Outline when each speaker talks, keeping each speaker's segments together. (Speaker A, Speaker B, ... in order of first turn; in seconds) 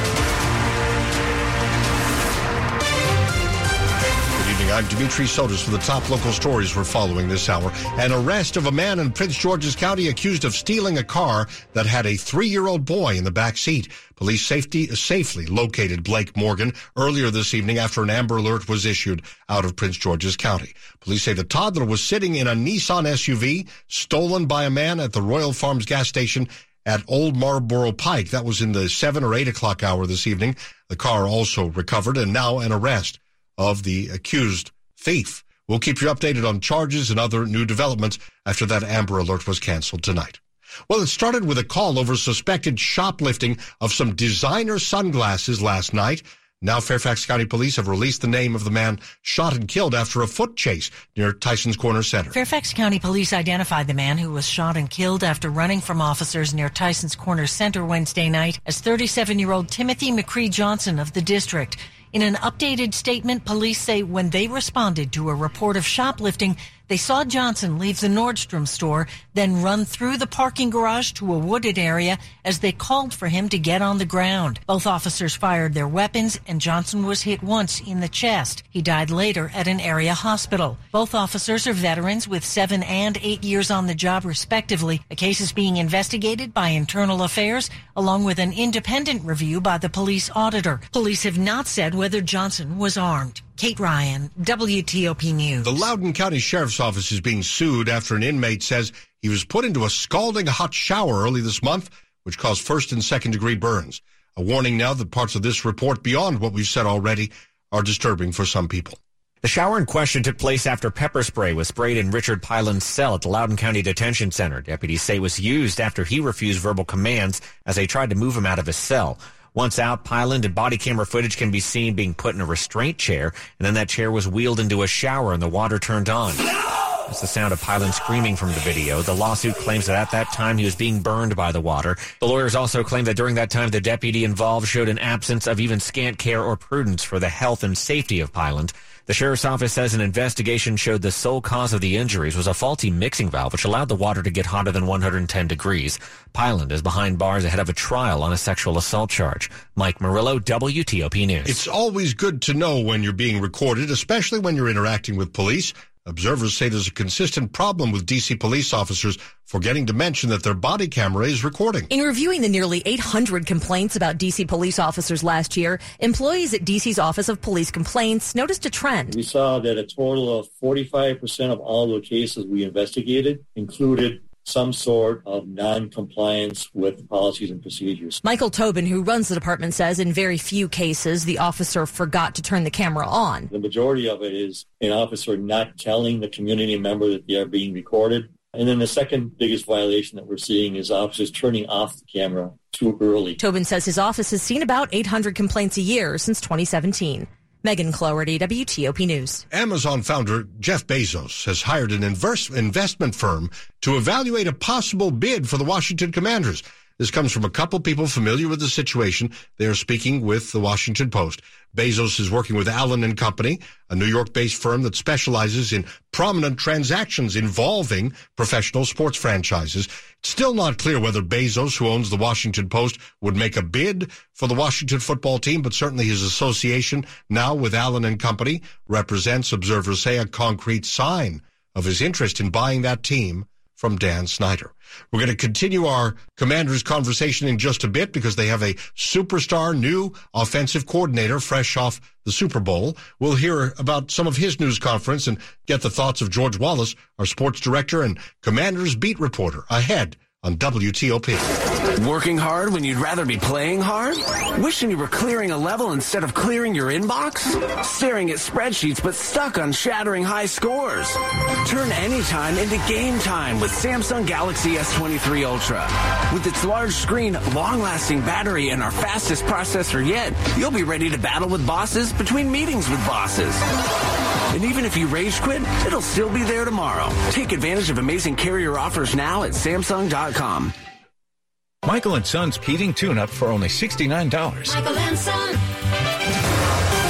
Speaker A: 4.3-52.4, 95.6-109.0, 151.4-161.9, 199.5-251.5
Speaker B: 52.3-95.8
Speaker C: 109.4-126.4, 127.1-151.6
Speaker D: 161.9-169.0, 178.3-183.4, 193.5-199.4
Speaker E: 169.1-178.2, 183.5-193.4
Speaker F: 252.0-273.6, 274.5-280.7
Speaker G: 281.8-284.8